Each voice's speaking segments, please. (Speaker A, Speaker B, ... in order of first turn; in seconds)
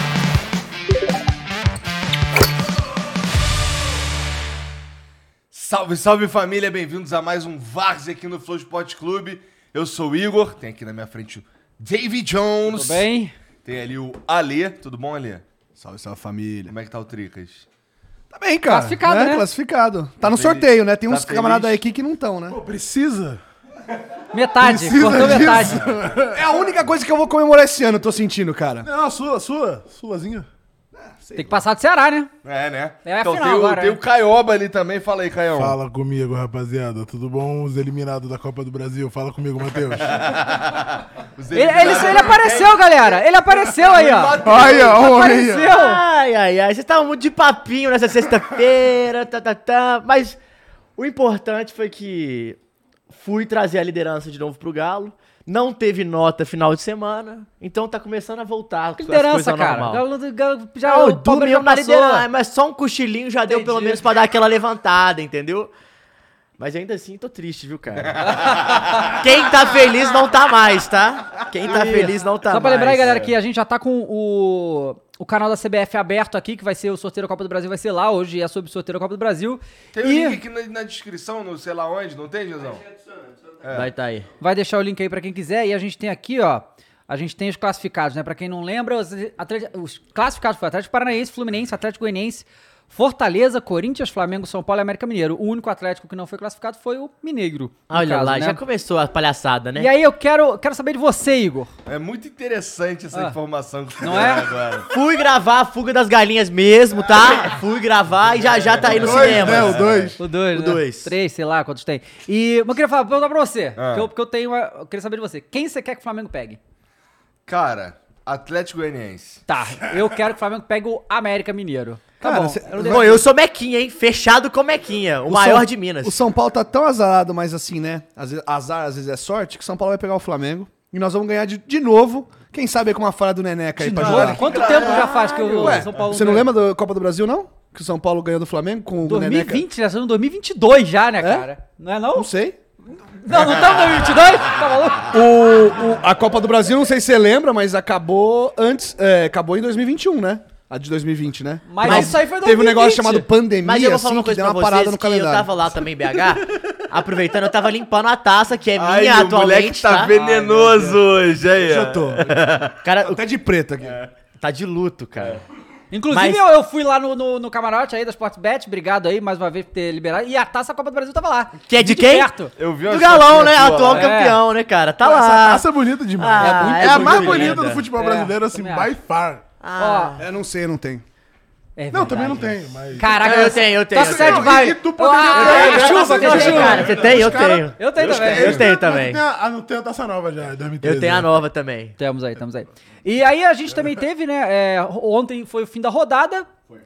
Speaker A: 5.5-13.1, 13.6-15.4, 16.7-17.7, 20.2-21.8, 32.4-35.8, 39.9-45.3, 68.2-69.1, 80.0-82.9, 83.6-83.9, 101.9-104.9, 108.4-110.2, 113.8-114.1, 117.5-119.4, 133.9-135.4, 158.8-162.7, 172.6-174.1
Speaker B: 12.7-13.3, 18.7-19.5, 24.3-25.8, 31.4-32.3, 33.0-34.0, 41.5-46.0, 59.0-62.2, 63.5-64.1, 71.7-80.4, 84.4-98.6, 99.8-101.7, 104.0-104.5, 110.2-116.6, 119.5-123.0, 133.8-136.5, 139.0-142.3, 143.1-145.1, 151.7-153.3, 160.1-161.0, 165.9-172.5, 173.9-174.4, 176.4-178.9, 179.8-180.2, 181.8-187.0, 187.8-188.7, 192.0-196.5
Speaker C: 15.8-16.7, 18.3-22.6, 26.3-28.9, 31.0-31.6, 122.2-123.3, 125.3-134.5, 135.6-139.7, 141.2-141.5, 142.1-142.6, 145.1-155.5, 161.6-162.3, 163.0-164.0, 180.2-181.1
Speaker D: 22.5-23.4, 24.6-26.4, 28.8-30.5, 35.5-40.2, 44.4-45.7, 108.9-110.2, 175.0-179.4, 181.9-183.4, 184.0-191.3
Speaker E: 45.7-50.4, 51.0-52.6, 53.1-60.0, 60.8-65.7, 66.6-73.3, 83.7-84.3, 97.9-99.9, 104.9-111.1, 122.8-126.2, 134.5-135.9, 151.8-152.1, 153.6-160.1, 162.2-163.2, 164.4-165.4, 166.1-166.4, 171.7-172.3, 172.9-177.8, 179.6-180.2, 183.2-184.6, 185.3-189.2, 190.8-192.0